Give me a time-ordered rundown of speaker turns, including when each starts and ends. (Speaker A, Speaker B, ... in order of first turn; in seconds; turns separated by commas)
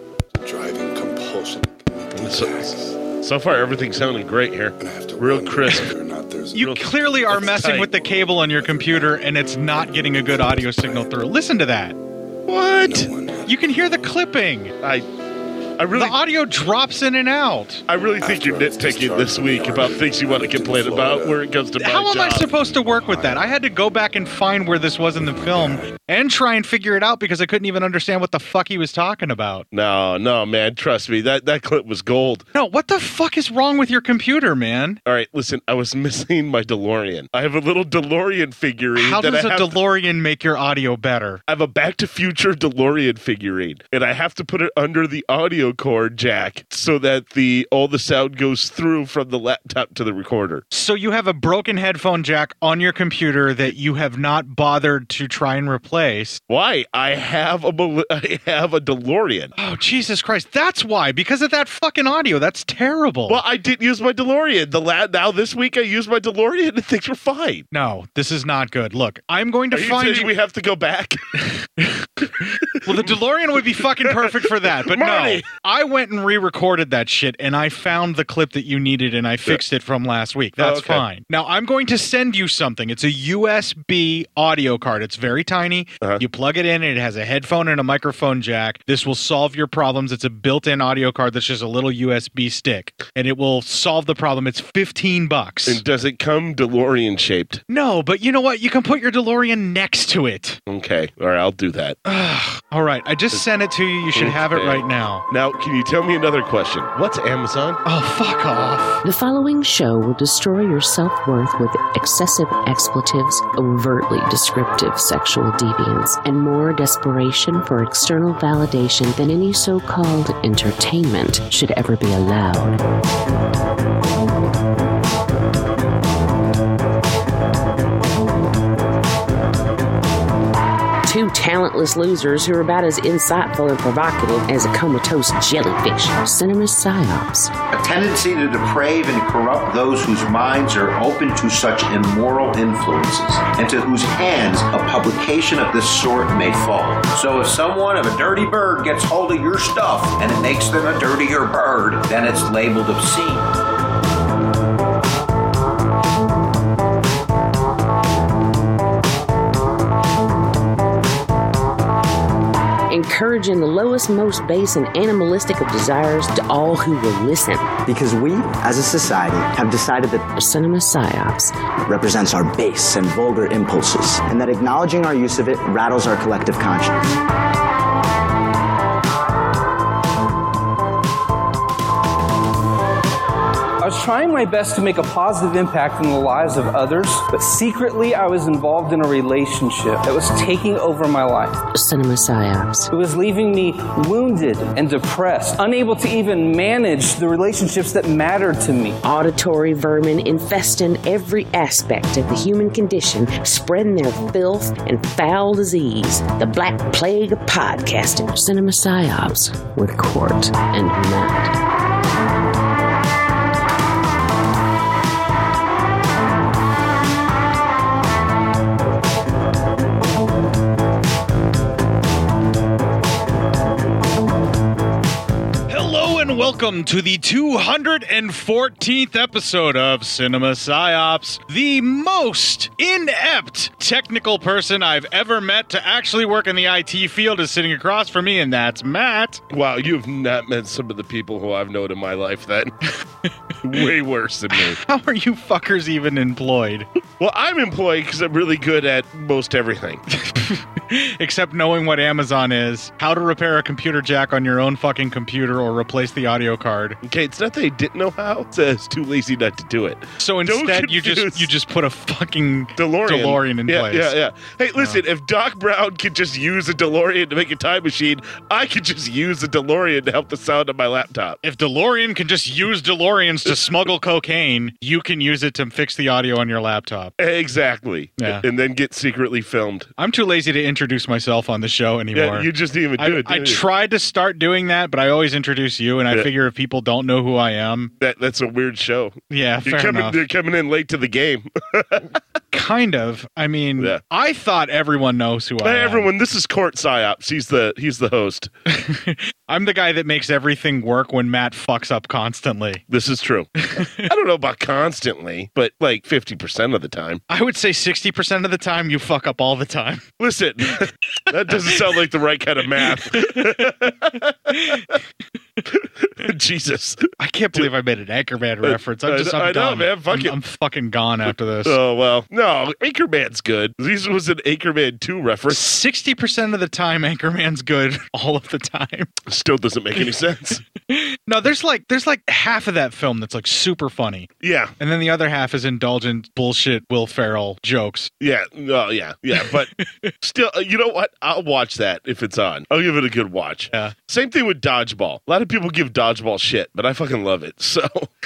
Speaker A: 0.4-3.0, Speaker B: 2.1-5.9, Speaker A: 4.8-11.2, Speaker C: 6.5-12.0, Speaker B: 6.6-7.9, Speaker B: 12.5-13.1, Speaker A: 12.8-14.1, Speaker C: 13.4-14.7, Speaker B: 15.8-16.2, Speaker C: 15.9-17.8, Speaker B: 17.9-22.5, Speaker A: 18.2-21.5, Speaker C: 21.8-29.6, Speaker A: 22.4-23.6, Speaker A: 25.2-26.0, Speaker B: 29.7-32.4, Speaker C: 32.5-35.0, Speaker B: 35.0-39.8, Speaker C: 39.0-41.4, Speaker B: 41.5-50.6, Speaker C: 50.7-56.4, Speaker B: 56.5-59.5, Speaker C: 59.5-63.4, Speaker B: 63.3-67.7, Speaker C: 67.7-70.3, Speaker B: 69.7-71.2, Speaker C: 71.4-95.8, Speaker B: 74.0-75.4, Speaker B: 80.6-81.0, Speaker B: 95.7-97.6, Speaker C: 97.7-100.6, Speaker B: 100.7-102.0, Speaker C: 102.0-105.2, Speaker B: 104.1-107.8, Speaker C: 107.8-109.0, Speaker D: 109.0-122.8, Speaker D: 131.0-137.5, Speaker E: 137.7-153.5, Speaker D: 162.9-167.7, Speaker F: 167.8-170.3, Speaker D: 170.3-171.5, Speaker F: 171.8-177.1, Speaker G: 183.8-191.6, Speaker D: 191.7-192.9, Speaker G: 192.9-199.0, Speaker D: 199.0-211.5, Speaker C: 225.7-239.4, Speaker B: 239.5-242.7, Speaker B: 243.6-244.8, Speaker C: 244.5-246.9, Speaker B: 247.2-250.0, Speaker C: 250.1-257.0, Speaker B: 257.0-261.5, Speaker C: 260.2-264.1, Speaker B: 262.8-271.4, Speaker C: 271.4-277.1, Speaker B: 277.2-279.9, Speaker C: 278.2-278.4, Speaker C: 280.0-287.9, Speaker B: 282.1-283.6, Speaker B: 288.0-292.2, Speaker C: 289.3-290.2, Speaker C: 292.5-296.1, Speaker B: 295.6-298.5, Speaker C: 298.7-302.8, Speaker B: 302.9-307.2, Speaker C: 303.6-304.1, Speaker C: 307.3-310.1, Speaker B: 310.2-315.0, Speaker C: 313.1-313.9, Speaker C: 314.5-314.8, Speaker B: 315.7-317.0, Speaker C: 317.2-321.8, Speaker B: 318.6-320.4, Speaker B: 321.6-325.7, Speaker C: 325.5-329.1, Speaker B: 329.3-330.6, Speaker C: 330.9-338.1, Speaker B: 334.4-334.7, Speaker B: 338.2-339.7, Speaker C: 339.4-340.1, Speaker B: 340.2-348.1